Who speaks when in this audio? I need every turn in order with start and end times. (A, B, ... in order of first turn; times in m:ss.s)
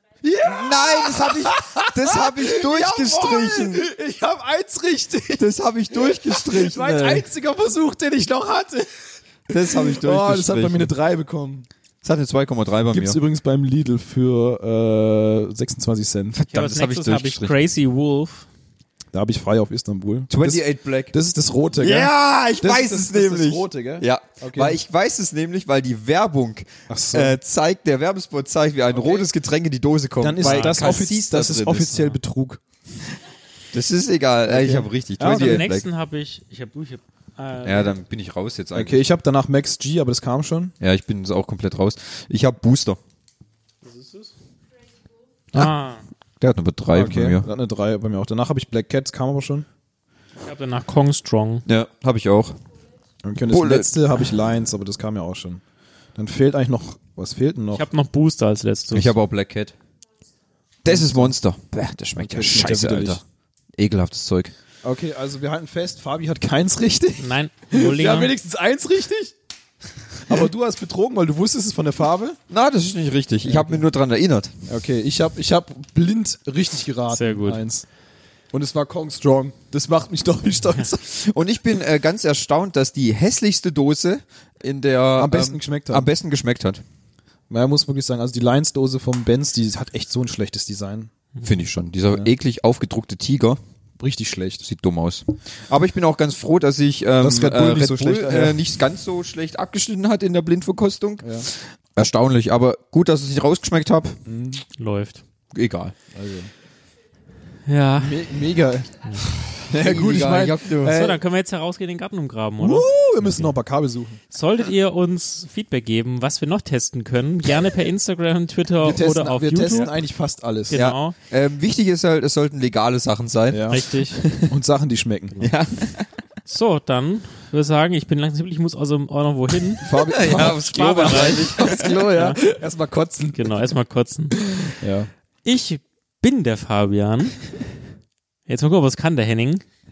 0:00.2-0:08.9 A
0:00.4-0:03.8 B
0:05.4-0:07.3 B
0:09.5-0:10.9 B
0:09.5-0:11.7 A
0:12.0-0:13.2 B
0:12.9-0:16.4 A
0:16.3-0:17.6 B
0:16.5-0:18.4 C
0:19.1-0:24.8 A
0:20.3-0:21.1 B
0:21.8-0:32.1 B
0:26.9-0:27.4 A
0:30.2-0:32.6 A
0:30.4-0:31.1 C
0:33.7-0:35.9 B
0:34.5-0:35.6 A
0:35.2-0:38.0 C
0:37.6-0:39.0 B
0:38.7-0:40.7 A
0:40.8-0:43.0 B
0:43.8-0:44.3 C
0:45.5-0:46.0 C
0:46.4-0:47.5 B
0:46.9-0:49.6 A
0:50.4-0:51.6 C
0:51.6-0:52.6 B
0:53.2-0:55.6 A
0:53.5-0:53.9 B
0:56.2-0:57.8 A
0:57.7-0:59.1 C
0:58.9-0:59.7 B
1:00.8-1:03.2 B
1:00.8-1:01.3 A
1:02.2-1:03.2 A
1:03.8-1:04.5 B
1:04.8-1:09.3 A
1:07.2-1:08.3 C
1:10.2-1:12.4 A
1:12.5-1:14.5 B
1:13.5-1:13.8 A
1:14.7-1:17.8 A
1:17.1-1:17.6 C
1:18.5-1:21.0 A
1:21.0-1:26.8 B
1:25.2-1:26.1 A
1:27.5-1:31.1 A
1:31.4-1:33.6 B
1:34.0-1:34.6 A
1:34.6-1:44.2 B
1:37.2-1:38.6 A
1:41.2-1:41.5 A
1:44.2-1:44.6 A
1:44.8-1:45.2 C
1:45.5-1:45.9 B
1:46.1-1:46.5 A
1:47.7-1:48.3 C
1:48.0-1:51.2 A
1:49.7-1:51.1 B
1:50.8-1:53.5 C
1:52.6-1:54.2 A
1:54.3-1:59.9 C
1:58.8-2:00.8 A
2:00.7-2:01.2 C
2:00.7-2:04.5 B
2:03.5-2:03.8 A
2:03.7-2:04.2 C
2:04.4-2:05.5 A
2:05.4-2:06.1 B
2:06.5-2:12.4 C
2:09.8-2:10.6 A
2:09.8-2:12.0 B
2:11.2-2:13.5 A
2:13.3-2:14.4 C
2:14.8-2:15.1 A
2:15.4-2:17.5 C
2:18.5-2:19.6 C